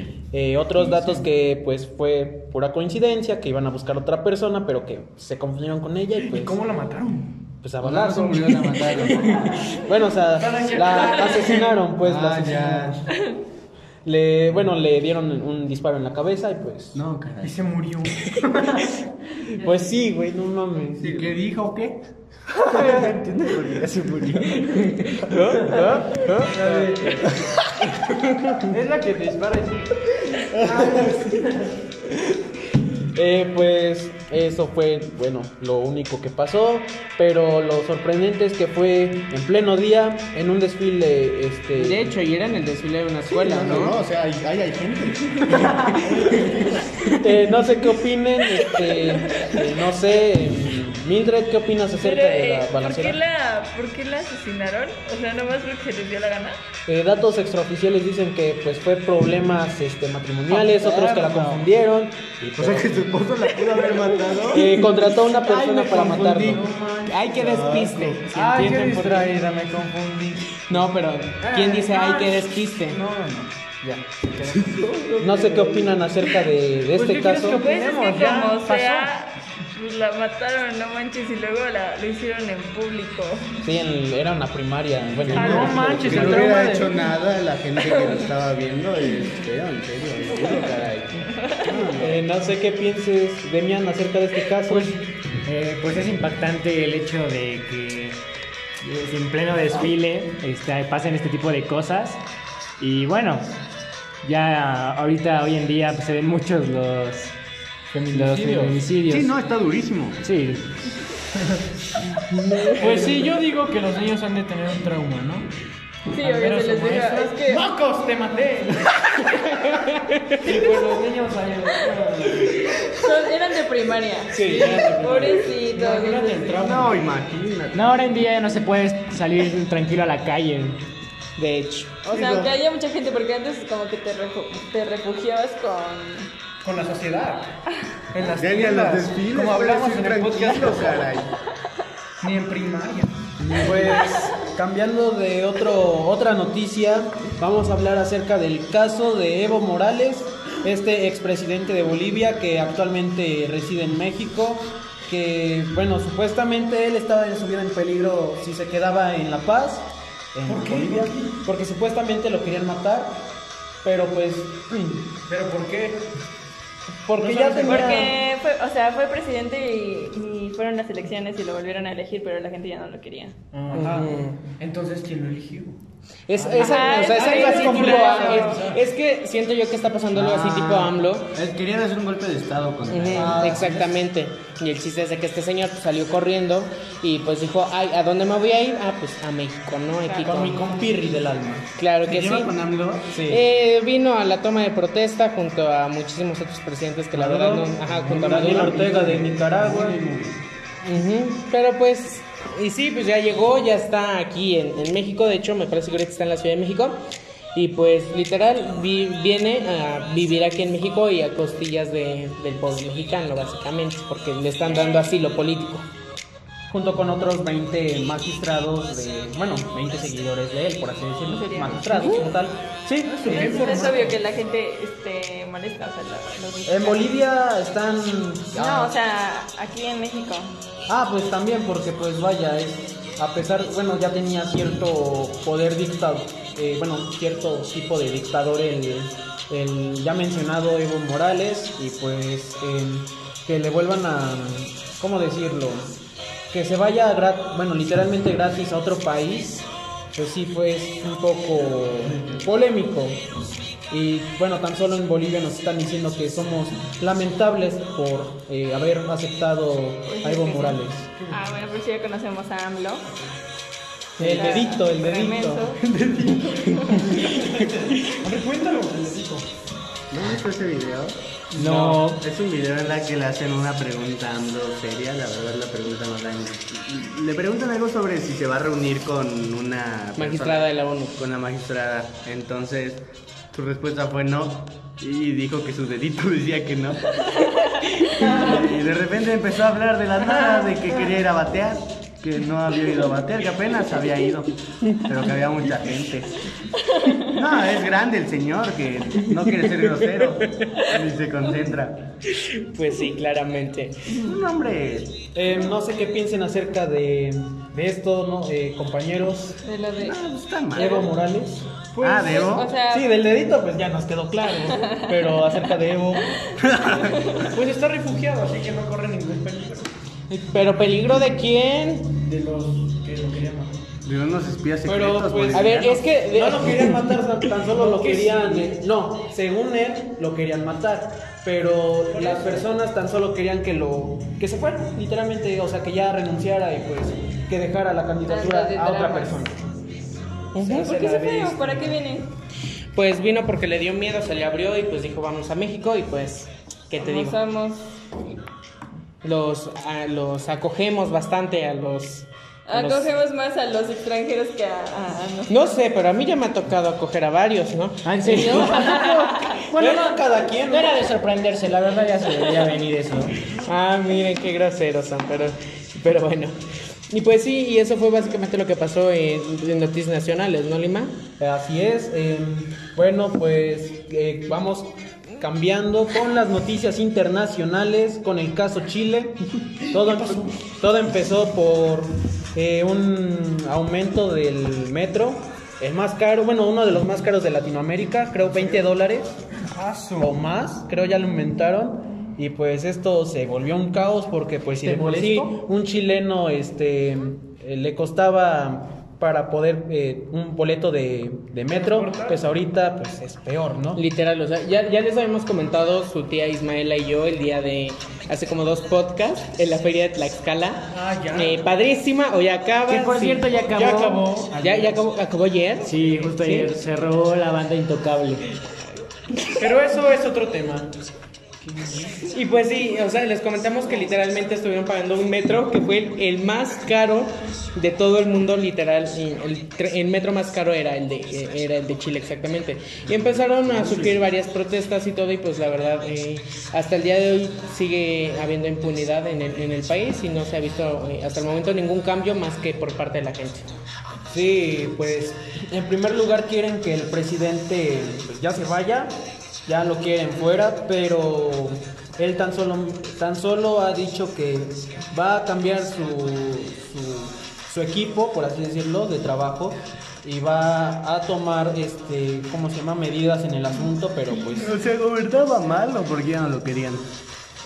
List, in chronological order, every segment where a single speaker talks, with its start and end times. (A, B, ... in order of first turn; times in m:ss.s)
0:00.3-0:06.6 A
0:00.8-0:01.2 B
0:06.2-0:07.4 B
0:07.6-0:13.0 A
0:07.8-0:09.6 C
0:10.4-0:11.8 B
0:12.0-0:13.0 C
0:14.0-0:17.0 A
0:16.9-0:17.7 C
0:17.4-0:19.0 B
0:19.5-0:21.3 A
0:21.0-0:22.0 C
0:22.6-0:24.0 B
0:22.7-0:27.3 C
0:25.1-0:26.5 D
0:25.6-0:27.3 B
0:26.6-0:27.0 A
0:28.4-0:28.8 A
0:28.7-0:31.7 B
0:30.5-0:31.1 C
0:33.1-0:42.1 A
0:41.8-0:44.0 D
0:43.4-0:46.8 C
0:47.2-0:53.2 A
0:52.0-0:56.6 E
0:56.9-1:03.1 A
1:00.5-1:01.6 B
1:02.6-1:04.8 C
1:04.5-1:06.6 A
1:05.4-1:06.4 D
1:06.4-1:10.8 B
1:07.1-1:08.7 D
1:10.6-1:13.0 D
1:11.4-1:15.9 B
1:15.2-1:17.6 A
1:16.9-1:19.1 B
1:17.6-1:23.6 E
1:23.6-1:26.5 A
1:25.3-1:27.0 B
1:25.3-1:32.2 C
1:31.4-1:31.8 E
1:32.0-1:35.0 A
1:34.7-1:35.1 B
1:35.3-1:38.2 F
1:38.8-1:42.2 F
1:42.8-1:43.5 F
1:44.2-1:47.4 F
1:47.9-1:48.9 B
1:48.1-1:49.4 F
1:49.1-1:50.2 C
1:50.2-1:50.7 F
1:52.8-1:55.5 B
1:56.1-1:57.7 E
1:56.2-2:02.8 B
2:02.6-2:06.6 E
2:04.3-2:07.0 B
2:04.3-2:04.9 A
2:06.5-2:07.9 C
2:07.7-2:10.8 F
2:11.4-2:12.0 D
2:12.0-2:16.3 E
2:16.6-2:17.6 B
2:18.1-2:21.1 B
2:18.4-2:21.3 C
2:22.2-2:23.3 B
2:23.4-2:43.2 A
2:40.5-2:41.4 B
2:43.8-2:45.1 A
2:45.3-2:46.1 B
2:47.1-2:48.1 A
2:47.2-2:48.1 B
2:47.7-2:53.4 E
2:53.5-2:55.8 B
2:53.7-2:54.3 D
2:56.3-3:01.3 D
2:56.3-2:58.8 B
2:56.6-2:58.6 E
3:00.1-3:03.6 C
3:02.9-3:10.7 D
3:03.2-3:03.8 A
3:03.2-3:03.8 B
3:10.1-3:11.7 A
3:11.8-3:12.5 D
3:12.1-3:13.0 C
3:13.0-3:13.4 A
3:13.2-3:18.9 D
3:17.1-3:20.0 A
3:18.0-3:20.3 C
3:20.8-3:27.0 D
3:27.5-3:35.9 D
3:34.7-3:35.1 E
3:36.7-3:44.0 A
3:41.3-3:42.3 E
3:43.1-3:44.2 B
3:43.2-3:47.2 E
3:46.7-3:48.9 A
3:48.5-3:50.5 E
3:50.9-4:06.0 A
4:06.5-4:13.2 A
4:13.9-4:21.1 A
4:20.1-4:23.2 E
4:24.2-4:25.8 A
4:24.2-4:25.8 E
4:24.3-4:24.6 B
4:26.4-4:27.0 E
4:26.9-4:29.5 B
4:30.1-4:56.4 C
4:31.6-4:32.2 F
4:31.6-4:31.9 B
4:40.2-4:41.2 D
4:56.8-4:57.3 E
4:57.2-5:02.0 C
5:02.3-5:04.2 D
5:04.2-5:05.2 C
5:05.4-5:09.6 A
5:09.6-5:10.2 E
5:10.0-5:11.0 C
5:10.7-5:11.7 A
5:10.8-5:11.1 E
5:11.9-5:12.5 B
5:12.0-5:12.7 C
5:12.3-5:13.1 E
5:12.9-5:16.4 A
5:14.7-5:15.1 E
5:16.6-5:17.6 C
5:17.5-5:19.9 B
5:20.3-5:22.1 D
5:22.2-5:23.9 B
5:24.0-5:26.0 C
5:24.8-5:39.6 A
5:25.5-5:27.2 D
5:27.7-5:28.7 B
5:32.1-5:32.7 B
5:38.3-5:39.4 E
5:40.5-5:41.0 D
5:40.6-5:42.3 E
5:40.6-5:42.0 B
5:42.9-5:47.4 D
5:47.0-5:47.9 E
5:49.2-5:53.1 D
5:52.7-5:55.8 E
5:55.5-5:58.7 D
5:58.1-5:59.2 F
5:58.2-5:59.3 B
5:58.3-5:59.6 E
5:59.7-6:01.0 A
5:59.9-6:00.2 B
6:00.7-6:03.4 F
6:03.5-6:11.2 D
6:11.4-6:29.4 A
6:19.9-6:20.6 B
6:29.7-6:30.4 B
6:30.2-6:44.0 A
6:34.8-6:35.5 B
6:41.7-6:42.4 B
6:44.0-6:53.4 D
6:50.9-6:51.7 B
6:52.9-6:54.5 F
6:53.6-6:55.0 B
6:54.6-6:56.6 D
6:55.8-6:58.5 F
6:56.1-6:56.6 B
6:59.6-7:01.0 B
7:01.6-7:02.3 B
7:02.2-7:23.7 D
7:24.3-7:29.1 A
7:29.7-7:44.7 A
7:44.4-7:47.1 C